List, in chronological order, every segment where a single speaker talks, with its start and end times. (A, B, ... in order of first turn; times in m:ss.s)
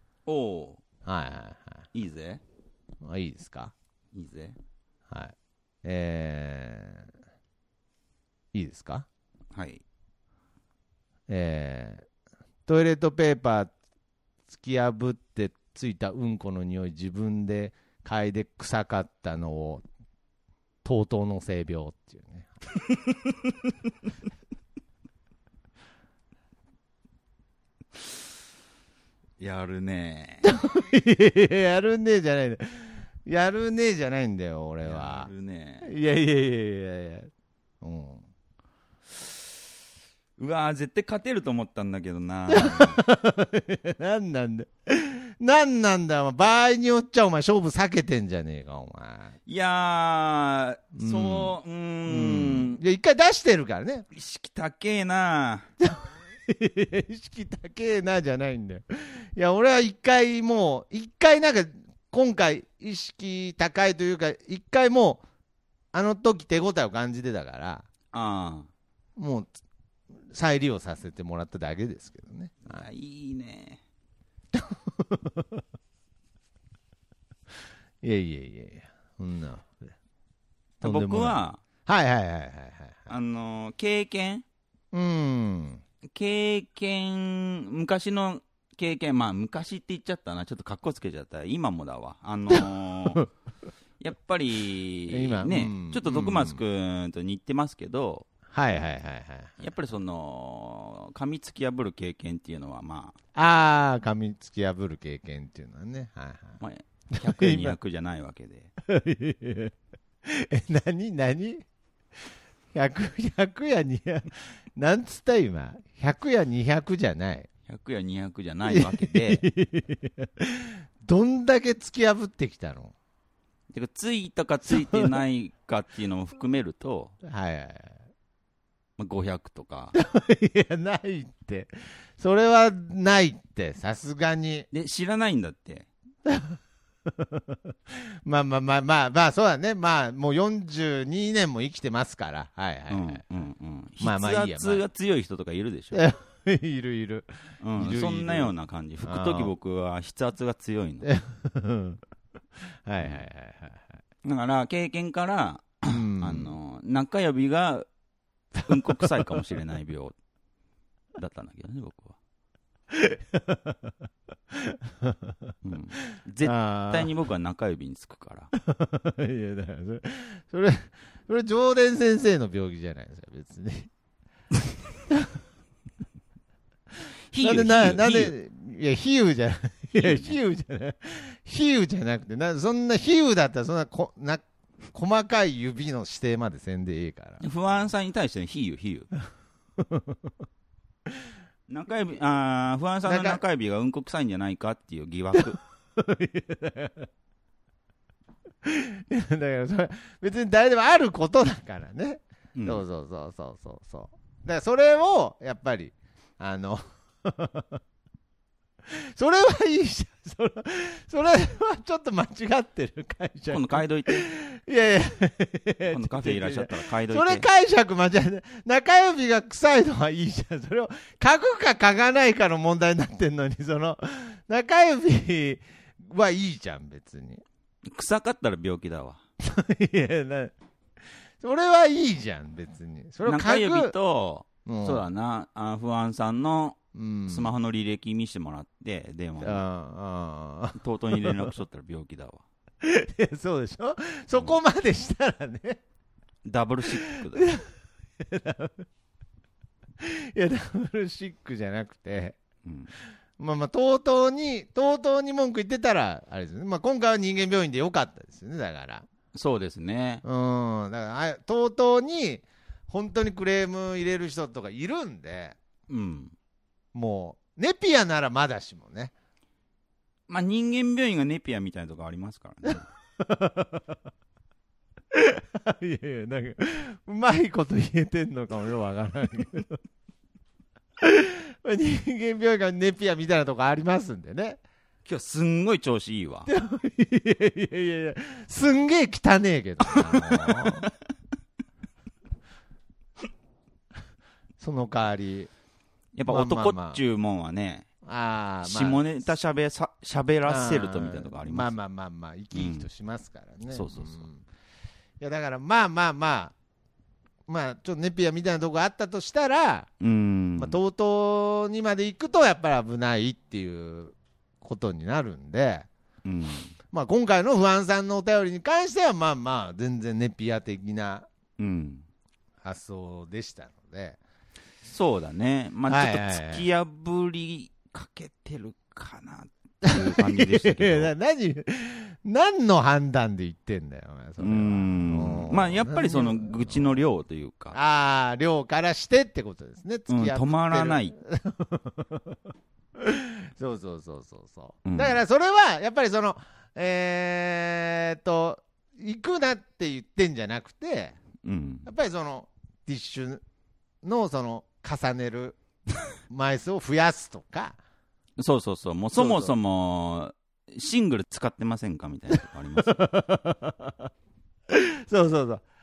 0:00.2-0:00.8 A
0:01.0-0:01.8 B
0:01.9-0:02.4 A
0:03.0-0:03.7 B
0:04.1-0:04.6 A
0:05.1-0:07.1 B
0:08.5-0:09.1 B
0:09.5-0:09.8 A
0:11.3-0:12.0 B
0:12.7-0:13.7 B
0:14.5-0:19.8 B
0:20.8-0:22.6 B
0:29.4-0:30.5 A
0:30.4-0:35.3 B
0:34.8-0:35.9 A
0:35.8-0:37.3 B
0:37.8-0:38.2 B
0:40.4-0:43.0 A
0:42.5-0:49.4 B
0:49.4-0:52.8 A
0:50.9-0:51.5 B
0:52.1-0:54.0 B
0:54.1-0:55.7 A
0:55.8-1:05.2 B
1:05.9-1:07.9 B
1:08.1-1:08.7 A
1:09.2-1:09.5 B
1:10.3-1:12.8 B
1:12.6-1:13.8 A
1:14.5-1:15.6 B
1:18.0-1:19.9 B
1:20.8-1:21.6 A
1:20.8-1:23.1 B
1:23.1-1:24.4 A
1:24.9-1:25.8 B
1:26.0-1:33.3 A
1:34.0-1:38.2 A
1:35.1-1:36.6 B
1:38.5-1:39.6 B
1:39.6-1:43.2 A
1:43.3-1:46.6 B
1:46.6-1:48.7 A
1:47.1-1:47.7 B
1:48.8-1:49.7 B
1:50.2-1:51.6 B
1:52.7-1:57.5 B
1:57.7-1:59.4 A
1:58.7-2:02.9 B
2:03.7-2:07.1 A
2:04.7-2:05.1 B
2:07.2-2:08.0 B
2:09.0-2:09.9 A
2:09.9-2:14.7 B
2:14.7-2:15.9 A
2:16.2-2:16.6 B
2:17.1-2:23.2 B
2:22.9-2:26.0 A
2:24.0-2:24.8 B
2:25.9-2:28.5 B
2:27.6-2:31.1 A
2:29.0-2:29.5 B
2:31.0-2:32.0 B
2:32.8-2:33.9 B
2:34.2-2:37.9 A
2:35.9-2:36.6 B
2:38.6-2:40.1 A
2:41.2-2:42.2 A
2:42.9-2:43.9 B
2:44.5-2:45.5 B
2:45.6-2:48.5 A
2:46.4-2:47.1 B
2:48.6-2:53.9 B
2:57.3-2:58.3 A
2:57.4-3:07.9 B
2:59.9-3:00.4 A
3:07.4-3:09.1 A
3:09.8-3:10.2 B
3:11.7-3:15.6 A
3:13.0-3:13.4 B
3:15.4-3:17.1 B
3:18.6-3:27.8 B
3:22.6-3:22.8 A
3:28.9-3:47.4 B
3:33.5-3:34.3 A
3:35.9-3:37.5 A
3:47.8-3:49.2 A
3:49.4-3:50.5 B
3:51.4-3:53.9 B
3:53.2-3:59.6 A
3:54.6-3:55.0 B
3:56.9-3:57.5 B
3:59.4-4:01.5 B
4:00.8-4:02.4 A
4:02.8-4:05.8 B
4:06.4-4:07.5 A
4:06.9-4:07.7 B
4:08.2-4:08.8 B
4:10.0-4:12.4 B
4:12.6-4:12.9 A
4:13.4-4:19.1 B
4:19.3-4:20.2 A
4:20.2-4:25.6 B
4:25.9-4:26.3 A
4:26.9-4:29.1 B
4:30.3-4:32.8 A
4:32.6-4:33.8 B
4:35.1-4:39.8 B
4:41.0-4:44.6 B
4:45.0-4:46.5 A
4:46.4-4:50.9 B
4:49.9-4:50.8 A
4:54.6-4:55.5 B
4:56.1-4:57.9 A
4:56.3-4:57.0 B
4:58.0-4:59.0 B
4:58.6-5:01.7 A
5:00.5-5:04.4 B
5:02.5-5:02.9 A
5:03.7-5:04.3 A
5:05.2-5:06.5 B
5:07.5-5:09.9 B
5:10.0-5:10.8 A
5:10.6-5:15.9 B
5:16.2-5:16.7 A
5:16.9-5:21.3 B
5:21.6-5:22.0 A
5:22.6-5:24.2 B
5:24.8-5:31.1 A
5:25.9-5:26.6 B
5:29.8-5:36.9 B
5:34.4-5:37.8 A
5:37.7-5:42.4 B
5:40.1-5:41.2 A
5:43.0-5:51.2 B
5:44.8-5:45.2 A
5:51.4-5:51.9 A
5:51.8-5:53.4 B
5:54.0-5:55.6 B
5:56.3-5:57.8 B
5:58.4-6:03.0 A
5:59.1-5:59.5 B
6:02.8-6:04.1 B
6:04.7-6:05.6 B